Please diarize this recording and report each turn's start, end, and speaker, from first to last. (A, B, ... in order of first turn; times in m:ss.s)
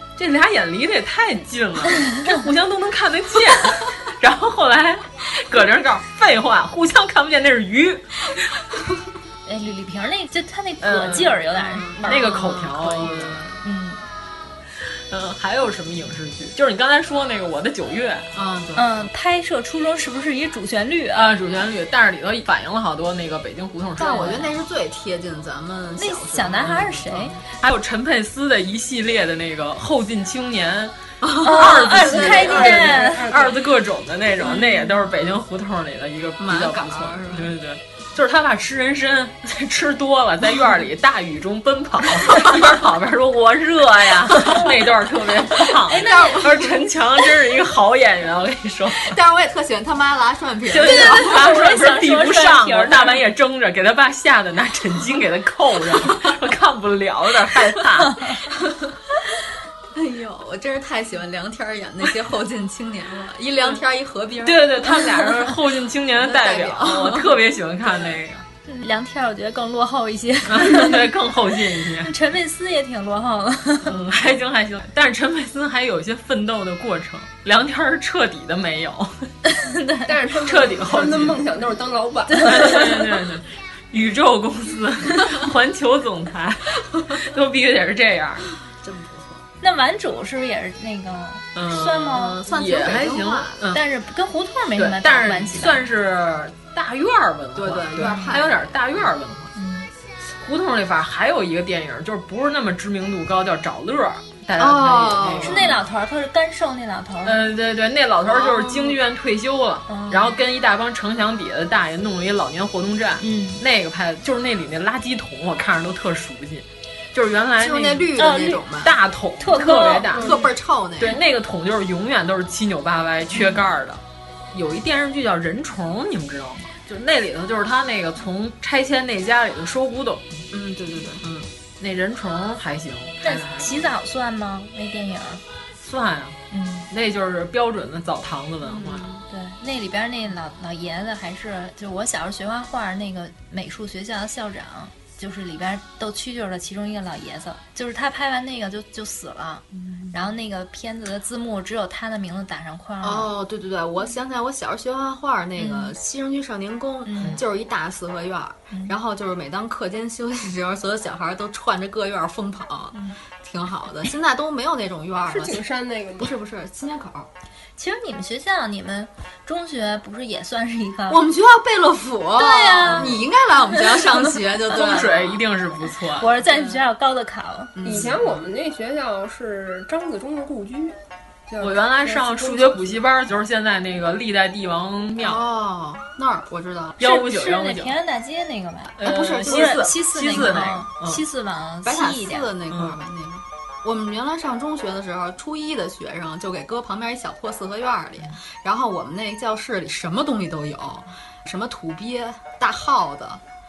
0:00.2-0:08.2 A
0:09.5-0:12.0 B
0:10.8-0:11.4 A
0:11.6-0:13.6 C
0:12.0-0:13.4 A
0:13.6-0:14.0 B
0:15.1-0:18.3 A
0:18.3-0:19.1 C
0:18.8-0:21.3 B
0:21.1-0:24.4 A
0:24.0-0:27.4 C
0:26.0-0:27.3 B
0:27.6-0:49.1 A
0:31.2-0:32.5 C
0:31.4-0:33.2 B
0:32.2-0:33.6 D
0:36.4-0:37.5 C
0:45.9-0:46.5 B
0:46.0-0:46.8 C
0:49.0-0:51.5 C
0:50.7-0:58.4 A
0:50.8-0:53.2 B
0:59.9-1:05.2 C
1:04.4-1:08.4 A
1:06.2-1:07.4 C
1:08.7-1:11.0 B
1:10.5-1:12.1 A
1:12.0-1:13.9 B
1:13.9-1:19.3 A
1:19.5-1:20.1 B
1:20.1-1:23.0 D
1:20.4-1:21.4 A
1:22.4-1:28.5 A
1:28.8-1:29.4 C
1:29.6-1:32.4 B
1:31.6-1:33.8 A
1:32.1-1:33.7 C
1:33.7-1:35.9 B
1:34.8-1:39.5 A
1:37.6-1:38.7 C
1:38.0-1:38.4 B
1:39.6-1:39.9 B
1:40.4-1:45.7 A
1:44.6-1:45.8 C
1:45.4-1:47.4 B
1:47.2-1:58.1 A
1:48.2-1:49.0 C
1:49.9-1:50.2 B
1:53.2-1:53.6 B
1:57.6-1:59.0 C
1:58.2-1:58.6 B
1:58.8-2:00.4 A
1:59.4-2:00.2 B
2:00.1-2:00.5 D
2:00.2-2:01.2 C
2:01.0-2:04.0 A
2:04.5-2:10.4 A
2:10.5-2:11.3 C
2:11.2-2:13.9 A
2:13.2-2:15.4 B
2:15.8-2:16.4 A
2:16.5-2:16.9 B
2:16.9-2:19.1 A
2:18.7-2:19.2 C
2:19.3-2:33.3 B
2:33.0-2:45.6 C
2:35.6-2:35.9 B
2:37.0-2:37.4 B
2:45.3-2:46.3 D
2:46.2-2:47.3 C
2:47.8-2:51.2 B
2:51.1-2:55.4 C
2:52.4-2:53.2 B
2:54.7-2:56.3 A
2:56.2-2:57.7 B
2:56.4-2:56.8 C
2:57.8-2:58.2 C
2:57.8-3:03.0 D
3:01.6-3:05.4 A
3:05.2-3:07.0 C
3:07.0-3:08.0 A
3:07.0-3:12.5 B
3:09.0-3:11.2 A
3:09.0-3:10.7 C
3:11.8-3:23.4 C
3:12.7-3:13.0 A